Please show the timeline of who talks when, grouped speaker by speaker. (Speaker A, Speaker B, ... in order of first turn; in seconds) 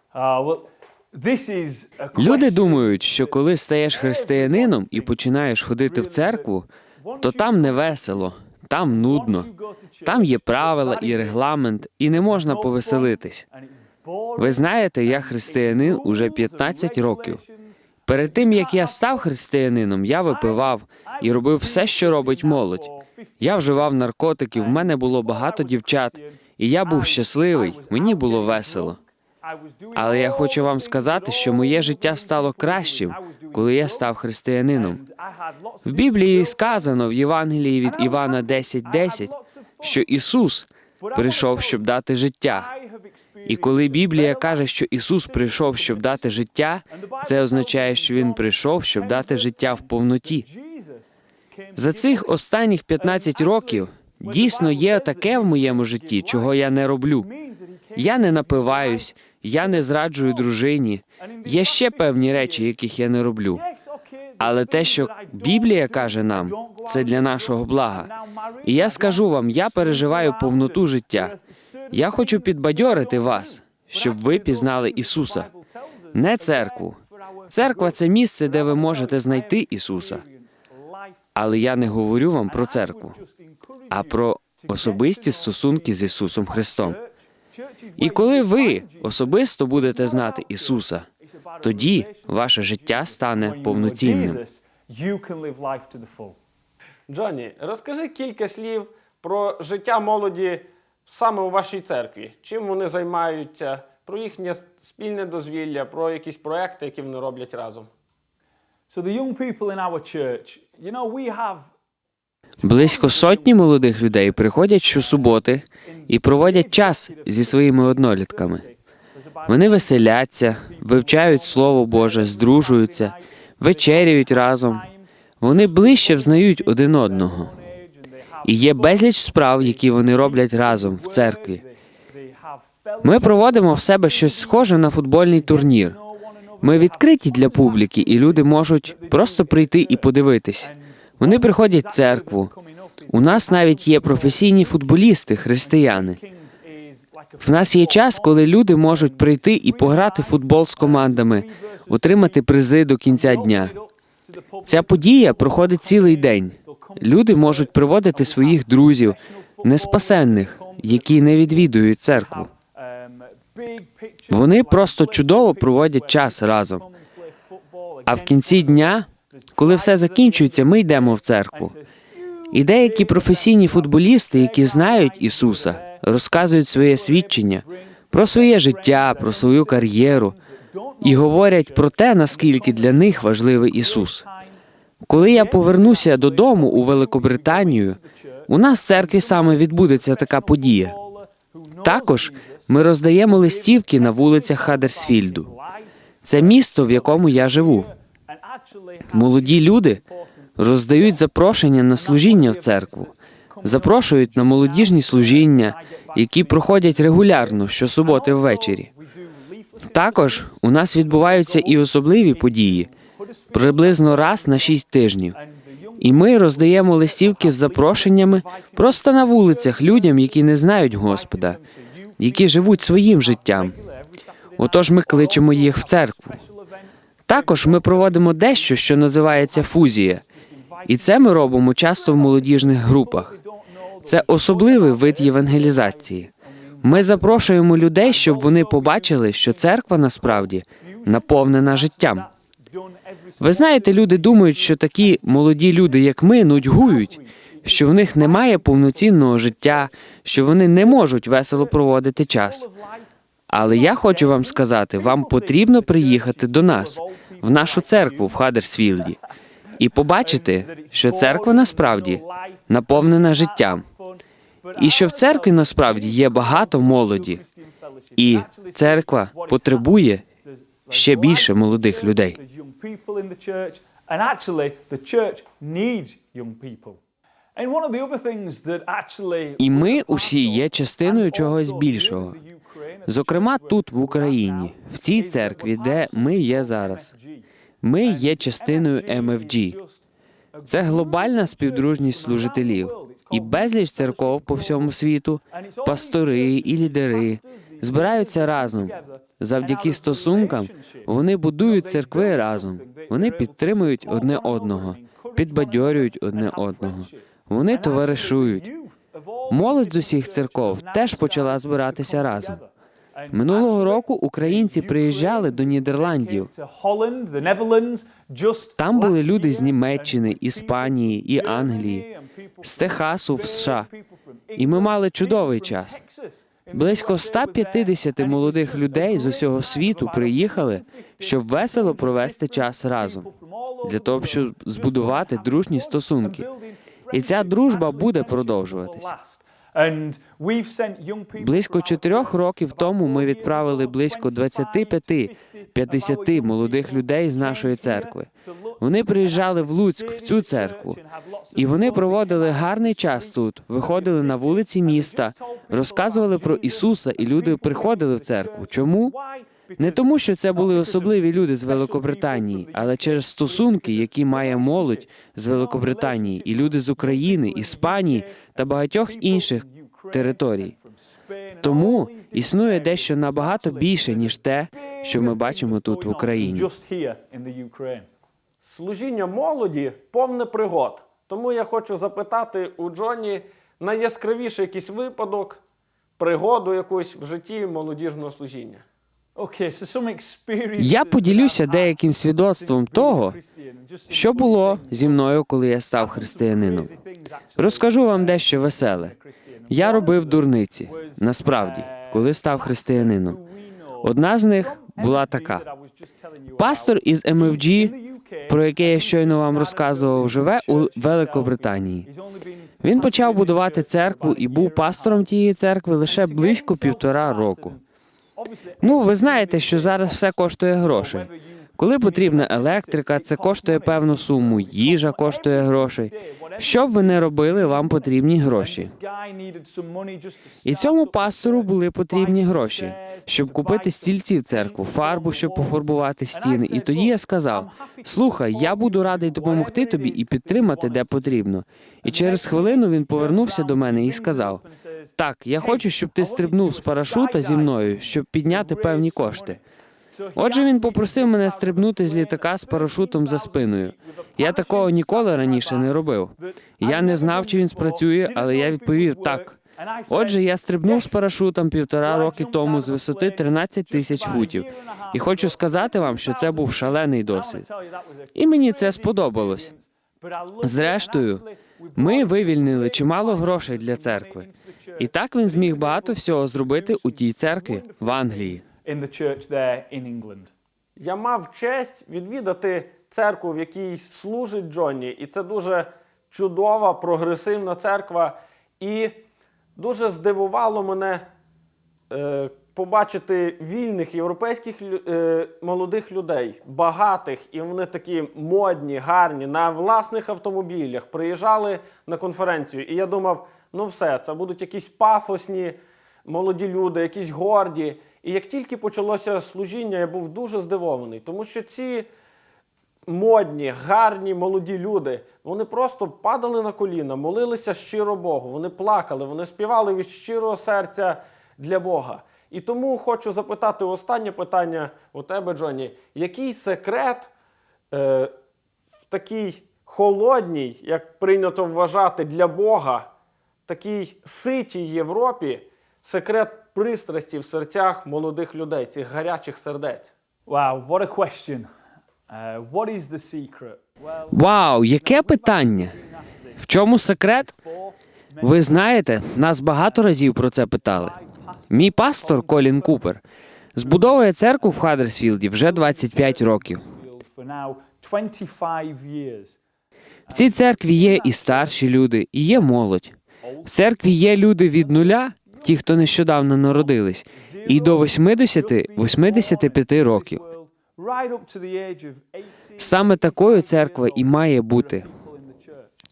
Speaker A: 0.1-5.2, 5.8-8.3, 9.0-11.4, 12.1-19.3, 20.3-24.0, 24.5-34.1, 34.7-37.0, 37.8-40.1, 41.0-41.8, 42.5-44.7, 45.2-52.4, 53.0-56.6, 57.2-60.5, 61.2-62.8, 63.5-81.2, 82.4-96.4, 108.9-111.7, 112.6-114.0, 114.8-152.4, 153.1-176.0, 176.6-184.6, 185.1-192.7, 193.3-201.2, 201.9-214.8, 215.3-239.7, 240.2-258.5, 260.2-277.0, 277.6-287.5, 288.0-290.0, 290.5-294.9, 295.5-378.1, 389.4-395.3, 395.9-415.3, 416.0-417.8, 418.4-441.4, 442.0-449.6, 450.1-461.3, 462.0-480.5, 540.5-541.7, 542.3-548.8, 549.8-553.2, 553.8-559.6, 560.3-561.9, 563.4-563.7, 564.7-566.1, 566.7-575.9
Speaker B: 2.1-6.7, 7.2-9.5, 10.0-13.4, 14.4-17.4, 18.1-22.9, 23.4-29.0, 29.9-35.0, 35.9-39.3, 39.8-42.7, 43.4-50.4, 51.8-57.3, 57.9-63.6, 64.4-68.1, 68.6-71.3, 71.9-75.5, 76.1-77.0, 77.5-80.2, 81.3-83.2, 83.9-87.0, 88.0-91.1, 91.6-94.4, 112.6-118.6, 119.5-124.8, 125.4-127.5, 128.4-131.6, 133.0-135.9, 136.6-142.5, 143.1-146.2, 147.4-153.7, 154.7-162.5, 164.3-166.8, 168.1-171.7, 172.5-180.3, 181.0-184.2, 185.1-190.9, 191.8-195.5, 196.2-197.9, 199.1-200.0, 200.6-203.1, 203.6-208.9, 209.8-212.9, 213.5-215.3, 216.0-221.6, 222.2-223.7, 224.6-226.4, 227.3-230.2, 230.8-233.3, 234.0-236.3, 236.8-242.2, 243.4-252.7, 253.5-259.2, 259.8-263.8, 264.8-267.4, 268.2-270.2, 270.9-272.4, 279.6-282.4, 283.1-287.1, 287.8-289.8, 290.7-308.7, 309.5-312.6, 313.3-316.5, 318.8-322.1, 322.6-323.9, 324.6-326.0, 326.7-333.2, 333.8-336.4, 337.1-339.1, 341.4-348.3, 348.8-351.0, 351.5-359.1, 359.8-370.7, 371.6-376.7, 390.8-393.4, 394.1-396.9, 397.6-399.1, 399.7-403.4, 404.0-405.6, 406.6-407.9, 408.5-412.1, 412.8-417.7, 418.8-428.9, 430.6-444.6, 445.2-449.6, 450.3-459.6, 460.1-467.6, 468.3-469.7, 470.6-471.4, 471.9-474.5, 475.0-478.6, 544.3-545.9, 546.6-547.5, 548.4-551.1, 551.7-553.2, 553.7-556.8, 560.3-570.4, 572.8-575.0
Speaker C: 97.1-107.9, 378.6-385.6, 386.2-388.8, 481.0-489.2, 489.8-491.2, 492.1-512.1, 513.1-527.3, 527.9-528.3, 529.1-533.1, 533.7-540.1